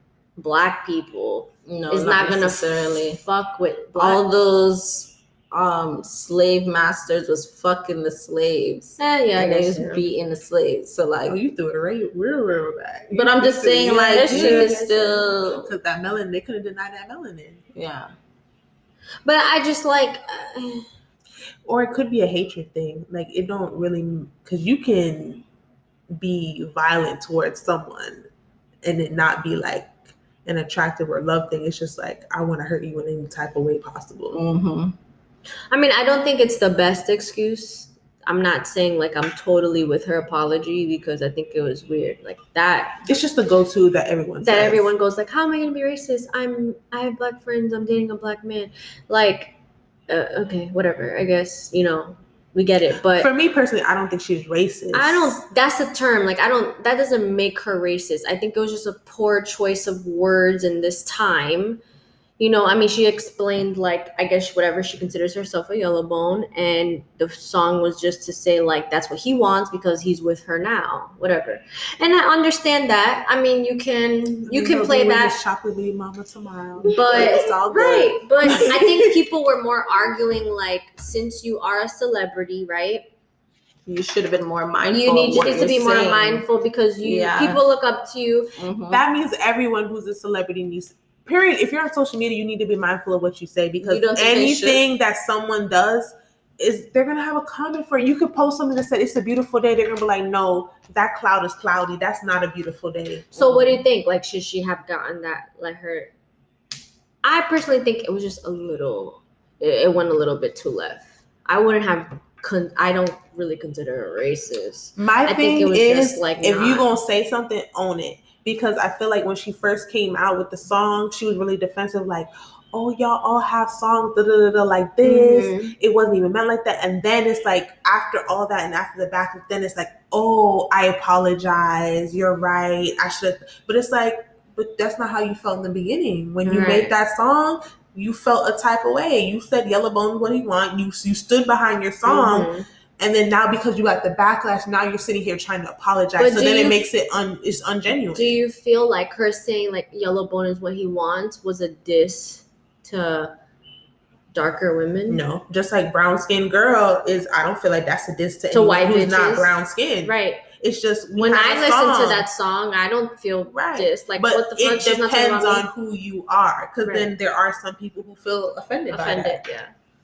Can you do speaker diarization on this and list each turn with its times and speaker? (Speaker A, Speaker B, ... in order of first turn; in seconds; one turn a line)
Speaker A: 0.3-4.2
Speaker B: 1.6-3.2
Speaker B: 4.0-11.4
Speaker A: 9.0-10.0
Speaker C: 11.2-17.6
Speaker B: 13.1-15.7
Speaker A: 14.1-15.2
Speaker B: 17.7-18.1
Speaker A: 19.2-20.9
Speaker C: 21.6-25.4
Speaker C: 26.1-28.2
Speaker C: 28.8-34.4
Speaker B: 34.3-35.0
Speaker A: 35.7-43.0
Speaker C: 43.0-44.9
Speaker A: 44.4-49.5
Speaker A: 50.1-53.3
Speaker C: 53.1-55.4
Speaker A: 54.9-61.8
Speaker A: 62.4-75.3
Speaker C: 74.5-79.1
Speaker A: 76.9-83.1
Speaker B: 83.8-86.4
Speaker A: 84.9-88.5
Speaker B: 87.0-87.6
Speaker B: 88.6-89.0
Speaker C: 88.9-103.5
Speaker B: 93.8-94.8
Speaker A: 103.3-106.1
Speaker B: 103.4-103.8
Speaker A: 107.2-116.9
Speaker C: 115.0-148.4
Speaker A: 125.0-125.7
Speaker A: 136.4-136.9
Speaker A: 142.1-142.7
Speaker A: 146.2-146.8
Speaker A: 148.1-153.3
Speaker A: 154.3-155.2
Speaker C: 155.1-162.3
Speaker A: 158.5-160.4
Speaker A: 161.2-165.7
Speaker C: 163.5-169.4
Speaker A: 166.8-167.1
Speaker A: 168.9-169.7